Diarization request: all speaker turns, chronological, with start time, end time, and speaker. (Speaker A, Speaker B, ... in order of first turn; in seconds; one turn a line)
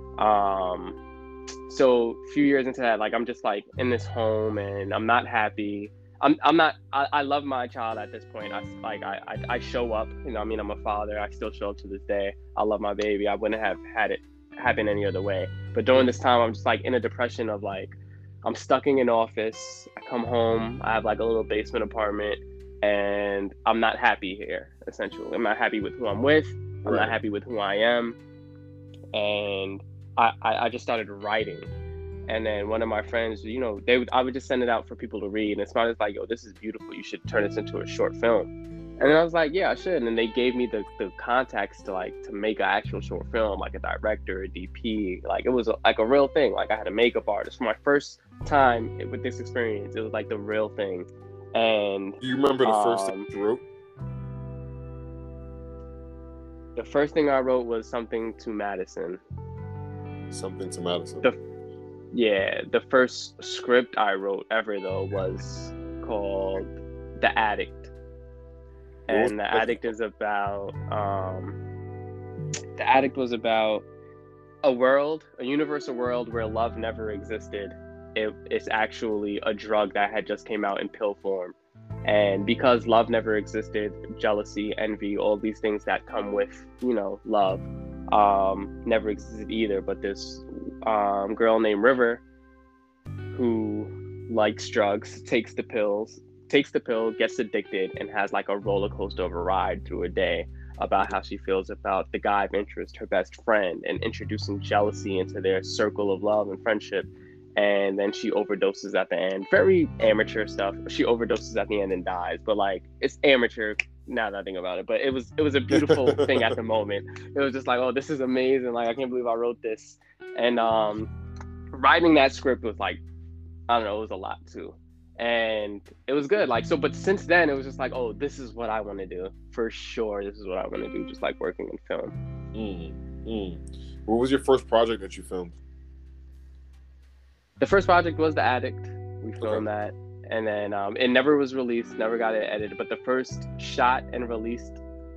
Speaker A: 0.2-1.0
Speaker A: 1.7-28.2
Speaker B: 26.8-27.2
Speaker A: 29.1-31.7
Speaker A: 32.3-53.3
Speaker B: 52.2-53.6
Speaker A: 56.8-59.2
Speaker B: 60.3-61.2
Speaker A: 62.1-67.9
Speaker A: 69.1-71.6
Speaker B: 69.1-69.8
Speaker A: 72.8-73.9
Speaker A: 74.6-92.2
Speaker A: 93.3-121.1
Speaker B: 115.7-116.5
Speaker A: 121.7-123.0
Speaker A: 123.7-132.1
Speaker B: 132.5-135.6
Speaker A: 137.6-144.8